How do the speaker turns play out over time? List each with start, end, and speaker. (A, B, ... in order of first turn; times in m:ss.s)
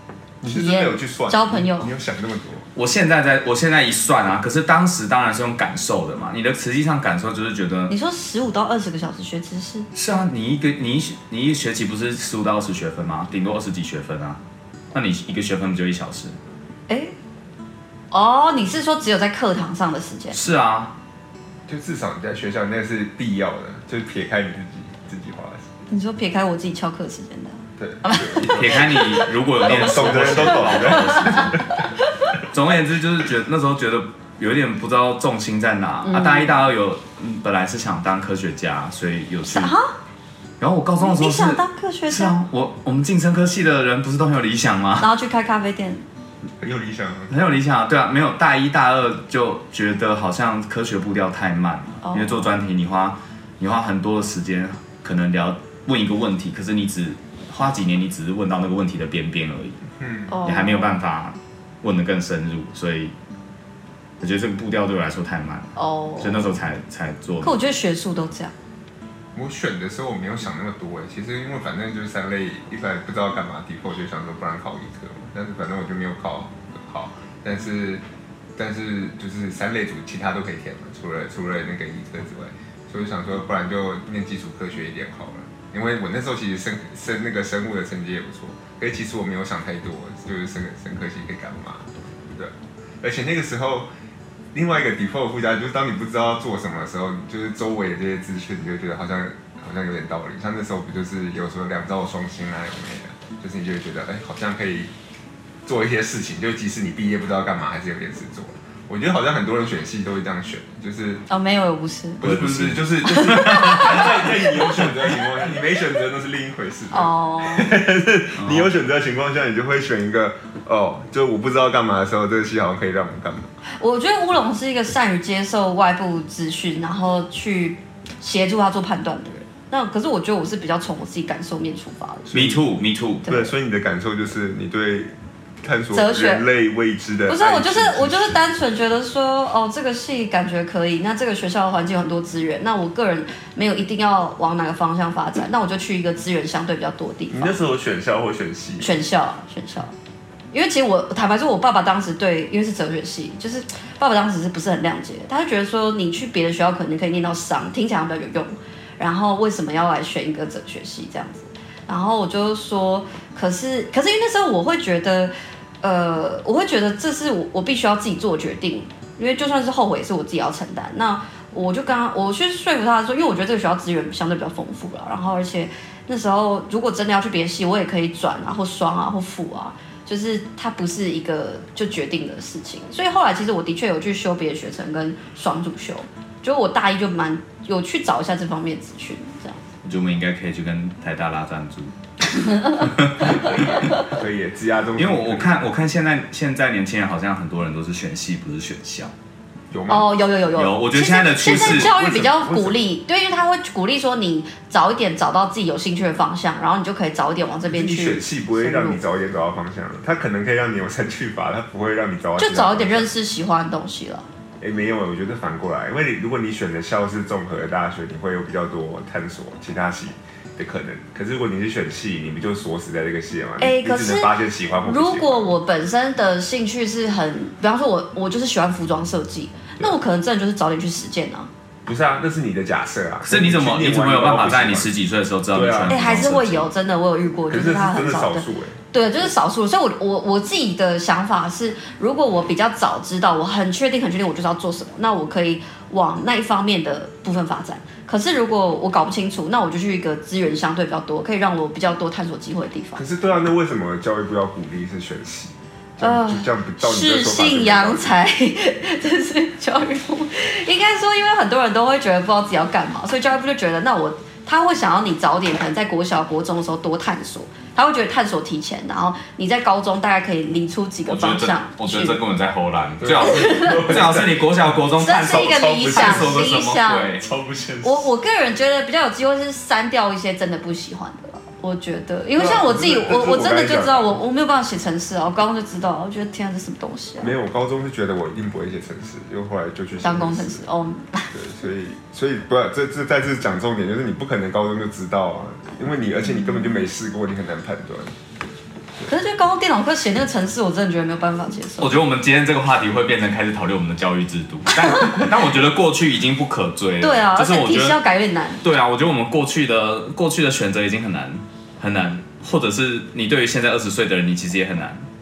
0:00.4-0:02.7 A
0:00.4-0:01.9 B
0:02.8-0:07.9 C
0:07.9-0:09.9 B
0:09.9-0:14.4 C
0:14.9-0:16.4 C
0:18.1-0:20.4 B
0:20.3-0:21.0 C
0:21.7-0:25.7 A
0:25.9-0:31.6 B
0:27.8-0:28.9 A
0:28.5-0:31.6 C
0:29.6-0:31.8 A
0:32.5-0:39.7 C
0:36.0-0:36.6 B
0:39.5-0:40.0 B
0:40.6-0:45.1 C
0:41.0-0:42.4 B
0:45.0-0:46.0 B
0:46.6-0:47.3 A
0:47.3-0:59.8 C
0:52.0-0:52.5 B
1:00.0-1:00.3 A
1:00.3-1:01.0 B
1:00.4-1:03.1 C
1:04.2-1:07.6 C
1:05.8-1:06.5 B
1:07.4-1:08.5 B
1:09.3-1:18.0 A
1:18.6-1:33.9 A
1:34.5-1:44.9 A
1:45.6-1:51.2 A
1:51.3-1:52.2 B
1:52.2-2:03.5 A
1:52.2-1:54.1 C
1:53.0-1:54.9 B
1:56.9-1:57.8 B
1:58.4-1:58.7 C
2:03.8-2:12.3 B
2:12.3-2:12.6 A
2:12.3-2:13.3 C
2:13.3-2:13.5 B
2:13.3-2:18.4 A
2:15.9-2:16.4 B
2:17.3-2:27.6 B
2:27.3-2:29.0 A
2:28.8-2:29.9 B
2:30.5-3:09.7 B
3:09.8-3:14.0 C
3:12.4-3:12.9 B
3:14.0-3:15.6 A
3:15.0-3:19.1 C
3:19.7-3:20.2 A
3:19.9-3:29.0 B
3:20.5-3:21.9 C
3:21.4-3:22.9 A
3:27.7-3:33.1 A
3:32.4-3:34.3 B
3:34.6-3:45.6 A
3:43.6-3:51.5 B
3:51.8-3:54.9 A
3:53.2-3:56.7 C
3:55.5-3:56.1 A
3:55.9-4:13.0 B
3:57.5-3:58.8 A
4:13.0-4:18.1 A
4:16.0-4:32.2 B
4:31.1-4:37.2 C
4:33.0-4:36.6 A
4:33.2-4:33.9 B
4:35.0-4:37.2 B
4:37.2-4:38.1 A
4:37.8-4:47.3 B
4:42.4-4:44.2 A
4:47.2-4:50.6 A
4:50.0-4:51.3 B
4:51.3-4:58.2 A
4:56.3-4:56.7 B
4:59.1-5:02.0 B
5:01.8-5:08.0 C
5:04.8-5:05.3 B
5:07.0-5:08.6 B
5:08.6-5:15.1 C